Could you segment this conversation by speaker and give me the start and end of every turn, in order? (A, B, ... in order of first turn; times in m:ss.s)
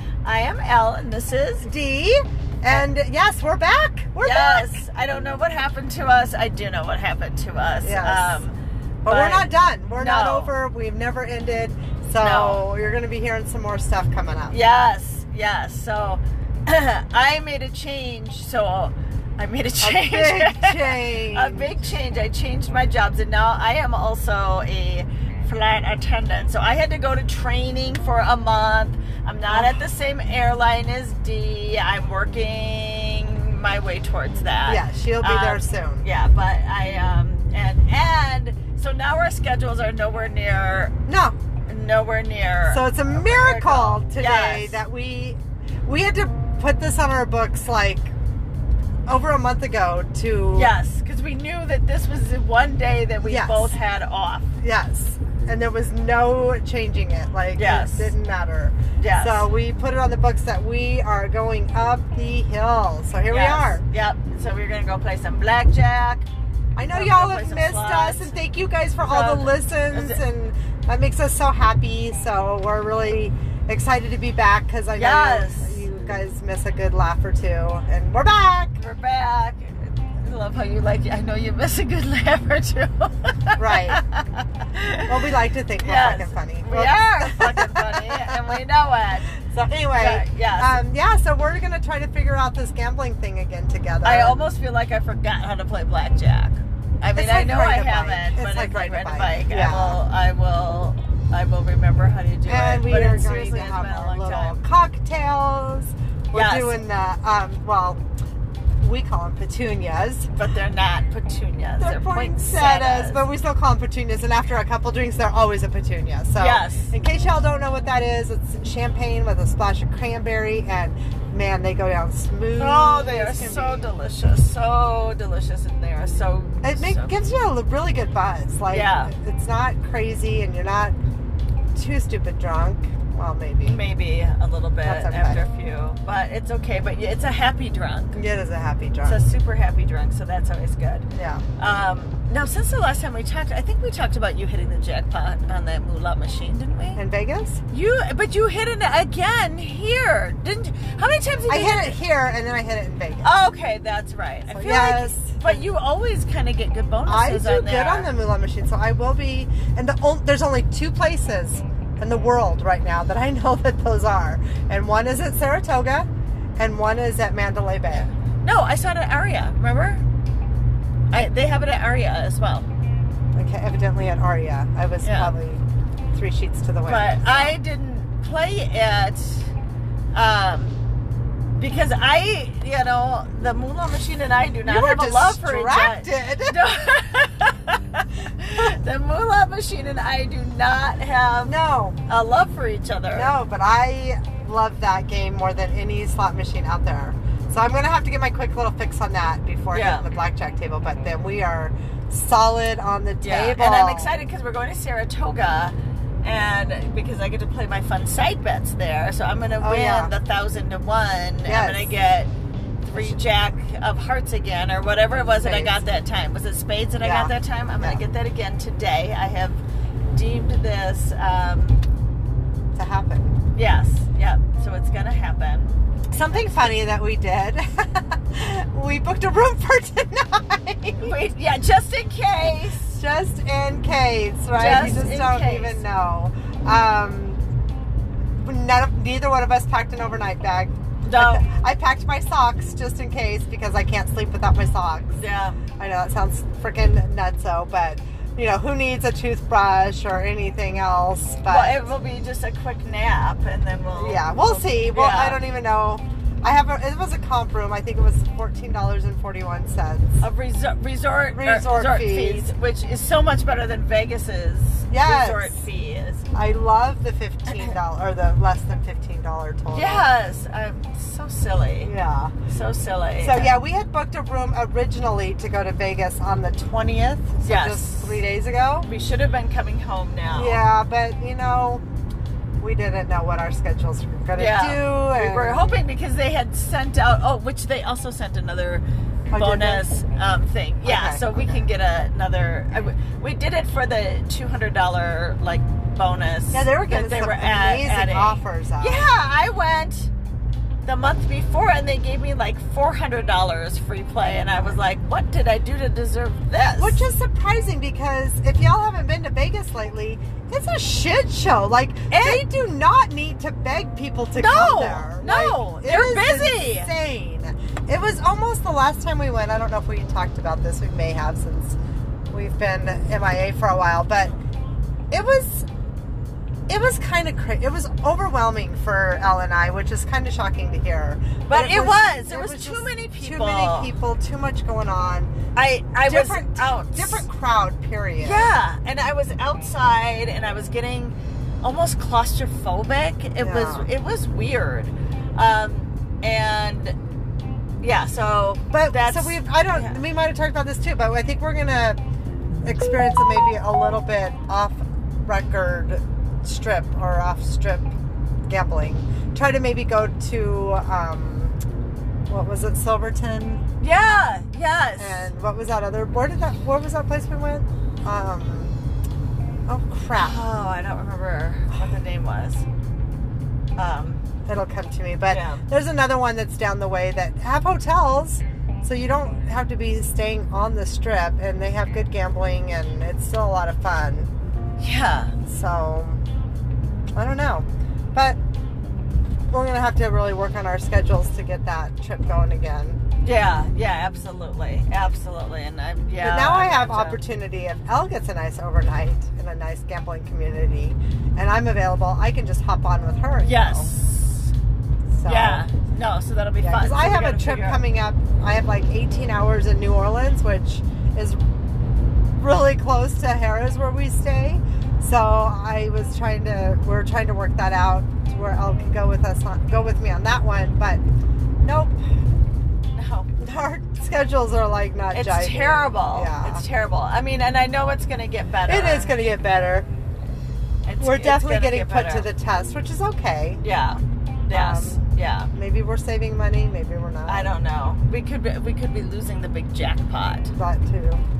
0:00.2-0:01.7 A
0:01.6-0:04.8 B
0:04.2-0:08.5 A
0:07.8-0:08.4 B
0:09.0-0:14.6 B
0:09.1-0:10.5 A
0:12.2-0:12.6 A
0:14.5-0:41.0 A
0:19.8-0:21.7 B
0:29.5-0:29.8 B
0:34.7-0:36.0 B
0:41.0-0:41.3 B
0:41.7-0:44.8 A
0:42.7-0:48.1 B
0:49.1-0:50.7 B
0:50.5-0:54.5 A
0:53.2-0:53.7 B
0:54.6-1:03.8 B
0:57.6-0:58.1 A
0:59.0-0:59.5 A
1:03.3-1:06.3 A
1:06.8-1:18.7 B
1:06.9-1:08.4 A
1:09.0-1:10.2 A
1:14.9-1:15.8 A
1:18.8-1:25.3 A
1:23.6-1:24.0 B
1:25.1-1:28.6 B
1:25.8-1:29.3 A
1:29.3-1:34.4 B
1:29.9-1:30.8 A
1:34.0-1:44.6 A
1:37.1-1:40.0 B
1:42.4-1:48.0 B
1:46.3-1:46.8 A
1:48.8-1:50.3 B
1:50.3-1:53.2 A
1:51.8-2:03.9 B
1:56.4-1:56.9 A
2:02.6-2:07.2 A
2:06.6-2:11.0 B
2:08.7-2:09.1 A
2:11.7-2:13.8 B
2:13.6-2:18.2 A
2:14.8-2:15.4 B
2:18.1-2:19.2 B
2:19.0-2:21.1 A
2:21.1-2:21.4 B
2:21.6-2:27.0 A
2:27.0-2:27.6 B
2:27.7-2:32.0 A
2:31.5-2:33.3 B
2:33.2-2:38.1 A
2:34.5-2:35.6 B
2:37.0-2:48.1 B
2:47.9-2:50.0 A
2:51.1-2:52.7 A
2:53.3-2:55.6 B
2:55.0-2:55.3 A
2:56.1-2:57.6 B
2:56.9-2:59.5 A
3:00.1-3:00.8 A
3:01.6-3:11.5 A
3:04.6-3:06.6 B
3:11.4-3:12.0 B
3:12.1-3:13.4 A
3:13.1-3:24.1 B
3:19.7-3:20.1 A
3:23.2-3:32.3 A
3:29.6-3:30.1 B
3:31.4-3:31.9 B
3:32.8-3:39.6 A
3:35.4-3:35.7 B
3:37.0-3:38.0 B
3:40.1-3:41.8 A
3:42.7-3:43.3 B
3:43.5-3:45.7 A
3:46.1-3:51.1 B
3:46.3-3:46.7 A
3:51.0-3:53.0 A
3:52.9-3:57.4 B
3:54.6-3:55.8 A
3:58.4-4:05.2 B
4:01.0-4:01.4 A
4:05.2-4:05.6 A
4:05.8-4:11.9 B
4:11.5-4:15.4 A
4:13.9-4:20.2 B
4:20.2-4:26.2 A
4:21.3-4:22.5 B
4:24.9-4:25.6 B
4:26.3-4:30.1 B
4:27.5-4:27.7 A
4:29.7-4:31.9 A
4:31.8-4:32.3 B
4:32.5-4:33.6 A
4:33.2-4:38.9 B
4:37.4-4:38.2 A
4:38.8-4:40.6 A
4:40.3-4:41.8 B
4:42.6-4:45.8 B
4:44.3-5:00.1 A
4:49.3-4:49.8 B
4:50.8-4:51.6 B
4:56.5-4:59.0 B
5:00.8-5:07.0 A
5:06.8-5:21.8 B
5:12.1-5:12.4 A
5:14.3-5:16.9 A
5:22.3-5:24.3 B
5:25.1-5:25.7 B
5:26.7-5:35.3 B
5:31.5-5:33.9 A
5:35.6-5:37.2 A
5:36.0-5:38.5 B
5:38.2-5:47.0 A
5:43.4-5:43.9 B
5:47.8-5:50.0 A
5:48.7-5:52.0 B
5:52.6-5:57.9 B
5:58.5-6:01.6 B
6:02.3-6:03.6 B
6:03.8-6:05.3 A
6:05.0-6:08.7 B
6:09.7-6:10.4 B
6:10.2-6:12.6 A
6:13.8-6:14.2 A
6:14.4-6:24.3 B
6:15.3-6:15.6 A
6:24.8-6:25.3 A
6:25.4-6:26.2 B
6:27.1-6:28.4 B
6:29.5-6:33.0 B
6:33.2-6:37.2 A
6:36.2-6:43.9 B
6:43.4-6:44.5 A
6:45.1-6:45.6 B
6:45.2-6:47.8 A
6:46.6-6:51.4 B
6:52.4-7:01.0 B
7:01.6-7:02.0 B
7:02.9-7:03.3 A
7:03.4-7:06.6 B
7:05.1-7:09.2 A
7:08.7-7:09.9 B
7:10.8-7:12.3 A
7:11.0-7:13.6 B
7:13.6-7:15.5 A
7:14.5-7:17.5 B
7:17.2-7:20.5 A
7:20.6-7:21.2 B